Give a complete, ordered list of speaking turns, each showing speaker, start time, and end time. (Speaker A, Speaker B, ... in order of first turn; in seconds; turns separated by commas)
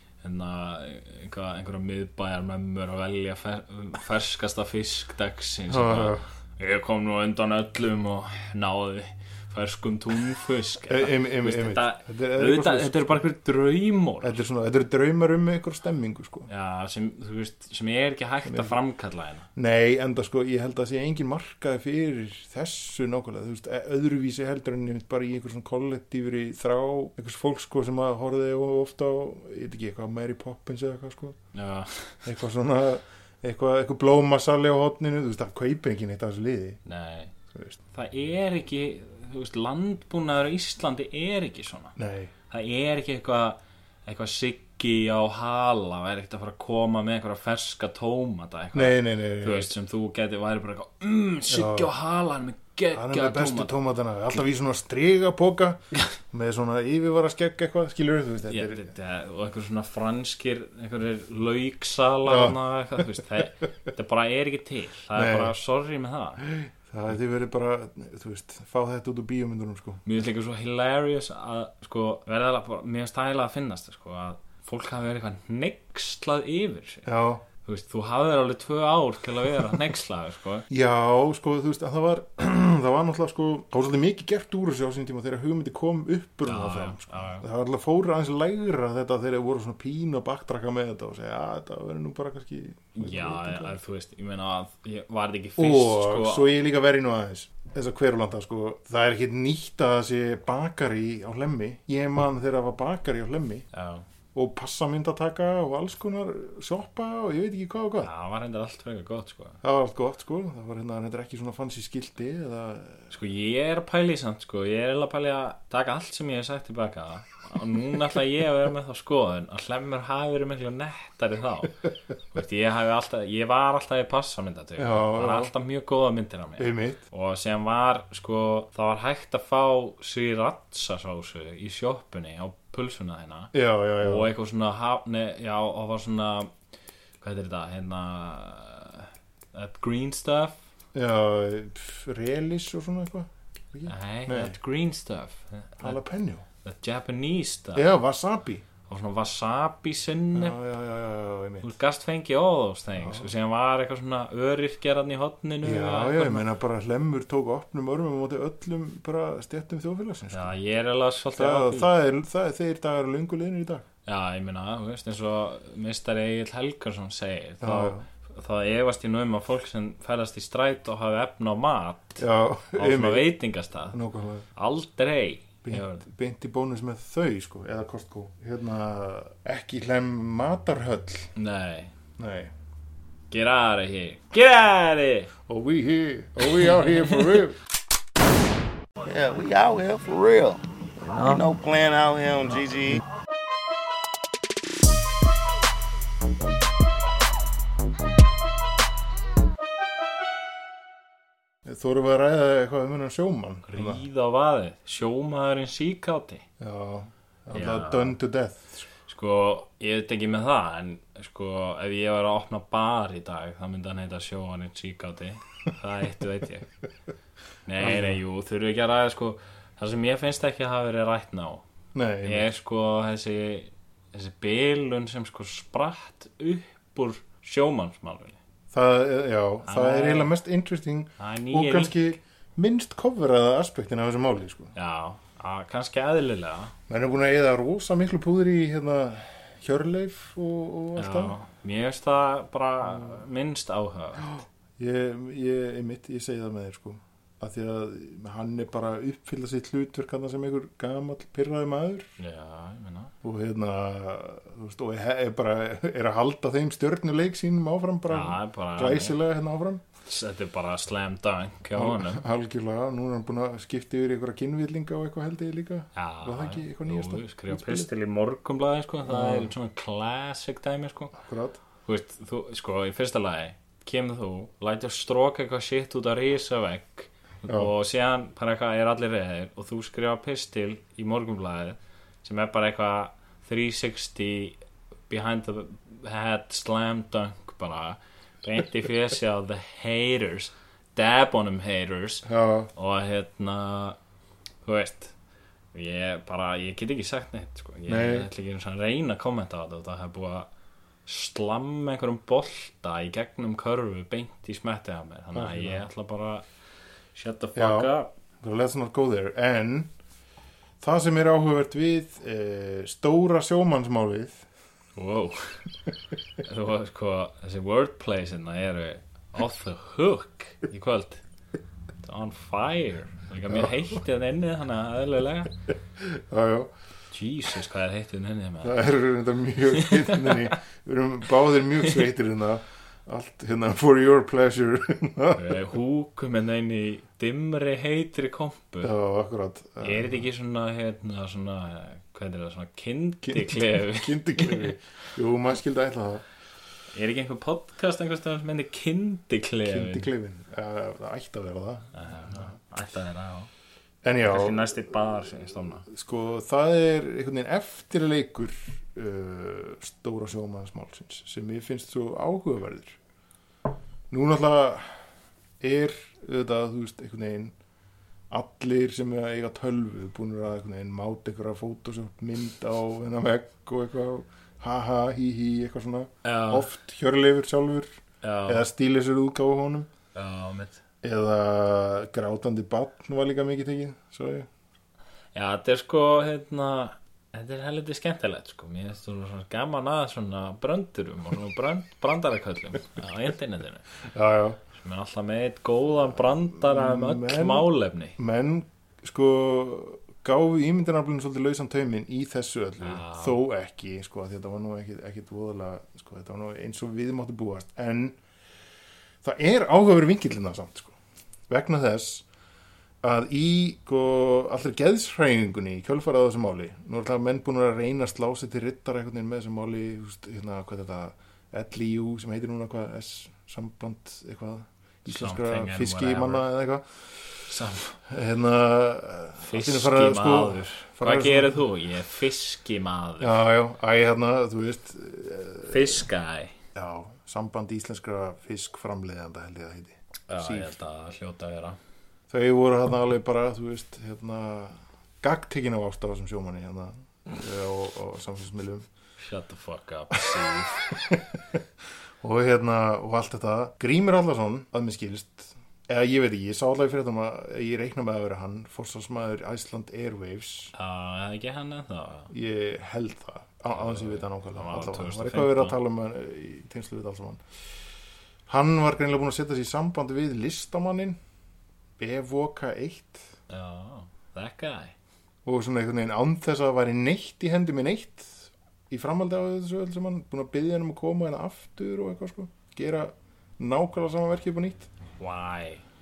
Speaker A: 0.2-14.4, Speaker B: 5.7-6.2, Speaker B: 10.9-13.2, Speaker B: 14.2-16.5, Speaker A: 16.5-19.5, Speaker B: 18.5-18.8, Speaker B: 19.6-31.4, Speaker A: 31.5-32.3, Speaker B: 32.3-36.8, Speaker A: 36.9-37.3, Speaker B: 37.5-37.8, Speaker A: 37.9-42.0, Speaker B: 42.0-42.3, Speaker A: 42.5-53.7, Speaker B: 48.7-49.7, Speaker B: 51.5-51.9, Speaker B: 52.9-58.9, Speaker A: 58.5-66.4, Speaker B: 62.3-63.2, Speaker B: 65.2-65.5, Speaker B: 66.4-70.0, Speaker A: 70.0-77.1, Speaker B: 77.1-77.4, Speaker A: 77.6-80.7, Speaker B: 80.7-93.8, Speaker A: 86.4-87.5, Speaker A: 93.0-96.5, Speaker B: 95.6-103.7, Speaker A: 103.7-104.0, Speaker B: 104.3-108.1, Speaker A: 108.0-109.6, Speaker B: 109.6-113.1, Speaker A: 113.1-136.5, Speaker B: 124.8-125.5, Speaker B: 126.6-127.0, Speaker B: 133.5-134.3, Speaker A: 137.2-140.6, Speaker B: 140.9-144.6, Speaker A: 143.9-146.0, Speaker B: 145.8-146.4, Speaker A: 146.6-147.9, Speaker B: 147.8-148.6, Speaker A: 148.9-150.6, Speaker B: 150.3-151.7, Speaker A: 151.6-156.5, Speaker B: 153.0-153.3, Speaker B: 155.6-160.6, Speaker A: 160.3-161.9, Speaker B: 161.4-163.8, Speaker A: 164.1-172.2, Speaker B: 167.6-168.0, Speaker B: 172.2-173.3, Speaker A: 172.8-174.0, Speaker B: 173.9-174.4, Speaker A: 174.6-176.0, Speaker B: 175.7-181.3, Speaker A: 181.4-181.9, Speaker B: 182.2-182.5, Speaker A: 183.3-185.3, Speaker B: 185.5-187.6, Speaker A: 186.7-187.2, Speaker C: 189.1-190.6, Speaker A: 191.1-191.4, Speaker C: 191.2-193.0, Speaker B: 201.7-204.0, Speaker A: 203.7-206.5, Speaker B: 206.6-208.9, Speaker A: 207.5-208.2, Speaker A: 209.1-216.7, Speaker A: 217.7-221.6, Speaker B: 217.8-218.2, Speaker B: 221.9-222.5, Speaker A: 222.2-228.4, Speaker B: 228.7-234.7, Speaker A: 229.7-230.3, Speaker A: 231.2-232.0, Speaker A: 234.7-236.7, Speaker B: 236.9-241.4, Speaker A: 241.0-244.3, Speaker B: 244.2-252.1, Speaker A: 252.2-253.1, Speaker B: 253.2-259.8, Speaker A: 258.1-259.2, Speaker A: 260.1-262.2, Speaker B: 261.8-267.9, Speaker A: 265.9-271.1, Speaker B: 269.1-269.5, Speaker B: 271.1-271.6, Speaker A: 271.9-284.6, Speaker A: 285.1-294.0, Speaker B: 292.2-292.7, Speaker A: 294.6-295.1, Speaker A: 295.7-300.5, Speaker B: 297.9-298.3, Speaker A: 301.1-306.4, Speaker B: 305.3-305.9, Speaker A: 307.1-308.1, Speaker B: 307.6-309.9, Speaker B: 310.8-314.5, Speaker A: 315.0-315.6, Speaker A: 316.4-321.2, Speaker A: 322.0-325.5, Speaker B: 323.5-323.8, Speaker B: 326.0-326.7, Speaker A: 327.1-328.8, Speaker B: 328.6-335.6, Speaker A: 329.8-330.6, Speaker A: 335.4-338.9, Speaker B: 338.8-340.2, Speaker A: 339.8-344.7, Speaker B: 343.2-346.2, Speaker A: 346.9-350.1, Speaker B: 349.6-351.9, Speaker A: 351.9-353.5, Speaker B: 354.0-354.8, Speaker A: 354.2-355.9, Speaker B: 355.9-363.0, Speaker B: 364.1-364.9, Speaker B: 365.6-367.5, Speaker B: 368.3-377.9, Speaker A: 376.2-376.7, Speaker A: 378.2-378.7, Speaker B: 378.5-379.9, Speaker A: 380.1-380.8, Speaker B: 381.0-384.5, Speaker A: 385.4-393.8, Speaker B: 394.1-394.6, Speaker A: 394.8-398.2, Speaker B: 396.5-408.2, Speaker A: 402.8-403.4, Speaker B: 409.2-410.9, Speaker B: 411.5-412.2, Speaker B: 413.0-427.3, Speaker A: 425.1-426.5, Speaker A: 427.5-428.0, Speaker B: 428.1-431.7, Speaker A: 429.4-433.4, Speaker B: 433.2-436.0, Speaker A: 435.7-436.6, Speaker B: 436.8-440.7, Speaker A: 440.3-441.8, Speaker B: 442.3-448.9, Speaker A: 449.2-451.1, Speaker B: 450.9-451.6, Speaker B: 452.2-460.7, Speaker A: 460.7-462.3, Speaker B: 462.3-467.4, Speaker A: 463.7-465.8, Speaker B: 468.5-471.2, Speaker B: 472.0-473.3, Speaker A: 473.5-474.9, Speaker B: 475.4-484.9, Speaker A: 485.2-485.8